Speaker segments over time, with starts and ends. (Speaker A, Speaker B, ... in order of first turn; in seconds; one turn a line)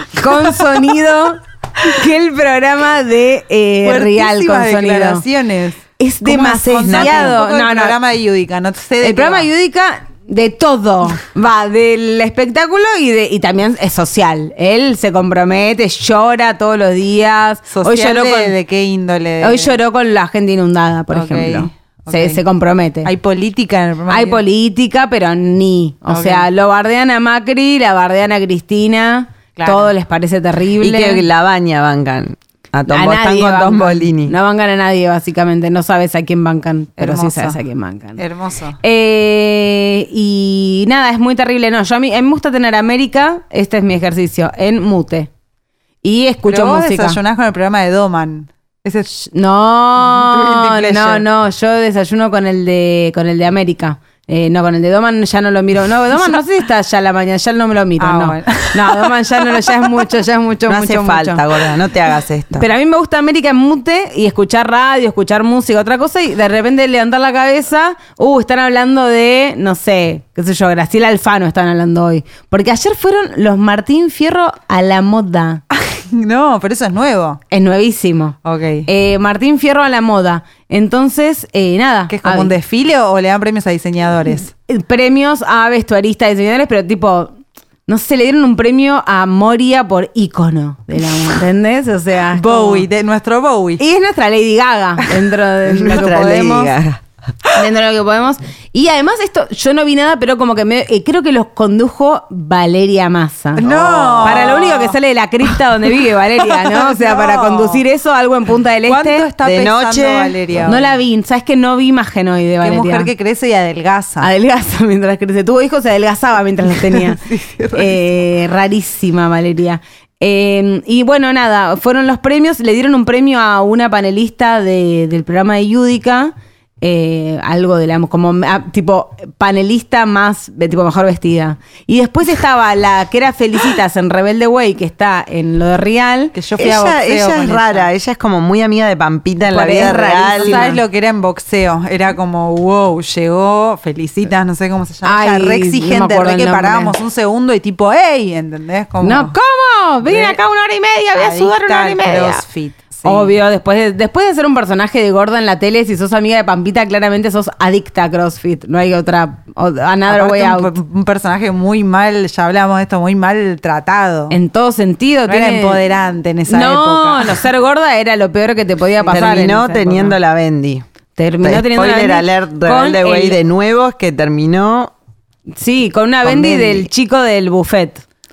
Speaker A: 0.1-5.2
Speaker B: 0.3-0.7
Speaker B: 3.8-9.5
Speaker A: 6.0-8.0
Speaker C: 6.3-7.3
Speaker A: 9.0-18.5
Speaker B: 17.7-19.8
Speaker A: 19.4-23.1
Speaker B: 21.1-22.4
Speaker B: 23.0-24.4
Speaker A: 24.1-31.2
Speaker B: 26.1-26.5
Speaker B: 29.6-29.9
Speaker C: 30.8-34.3
Speaker A: 32.9-38.2
Speaker B: 37.0-37.6
Speaker B: 38.2-38.8
Speaker A: 38.8-45.3
Speaker A: 46.0-47.2
Speaker B: 46.5-49.1
Speaker A: 49.2-61.4
Speaker B: 50.0-51.2
Speaker B: 58.0-60.0
Speaker C: 60.7-62.7
Speaker A: 62.5-75.6
Speaker B: 75.7-77.4
Speaker A: 77.5-78.3
Speaker B: 78.4-78.9
Speaker A: 78.8-82.5
Speaker B: 82.1-84.5
Speaker A: 84.7-87.3
Speaker A: 87.9-92.8
Speaker B: 92.3-93.8
Speaker A: 93.8-96.7
Speaker C: 95.7-97.0
Speaker A: 97.5-103.7
Speaker B: 103.6-105.0
Speaker C: 103.6-104.5
Speaker A: 104.2-109.2
Speaker B: 106.4-107.8
Speaker B: 108.8-110.9
Speaker C: 109.4-110.4
Speaker A: 110.7-113.1
Speaker B: 112.6-114.3
Speaker A: 114.2-117.2
Speaker B: 116.8-118.0
Speaker A: 117.7-136.3
Speaker B: 136.3-137.9
Speaker C: 136.6-140.8
Speaker A: 139.5-140.8
Speaker B: 139.6-149.3
Speaker A: 145.0-146.9
Speaker A: 149.0-152.4
Speaker B: 150.0-150.4
Speaker B: 151.2-153.3
Speaker A: 153.0-160.7
Speaker B: 160.1-164.4
Speaker A: 164.3-165.8
Speaker B: 165.3-167.4
Speaker A: 166.5-170.1
Speaker B: 169.0-169.4
Speaker C: 169.1-170.8
Speaker A: 171.2-173.4
Speaker C: 171.4-174.9
Speaker A: 175.6-178.0
Speaker C: 176.2-176.9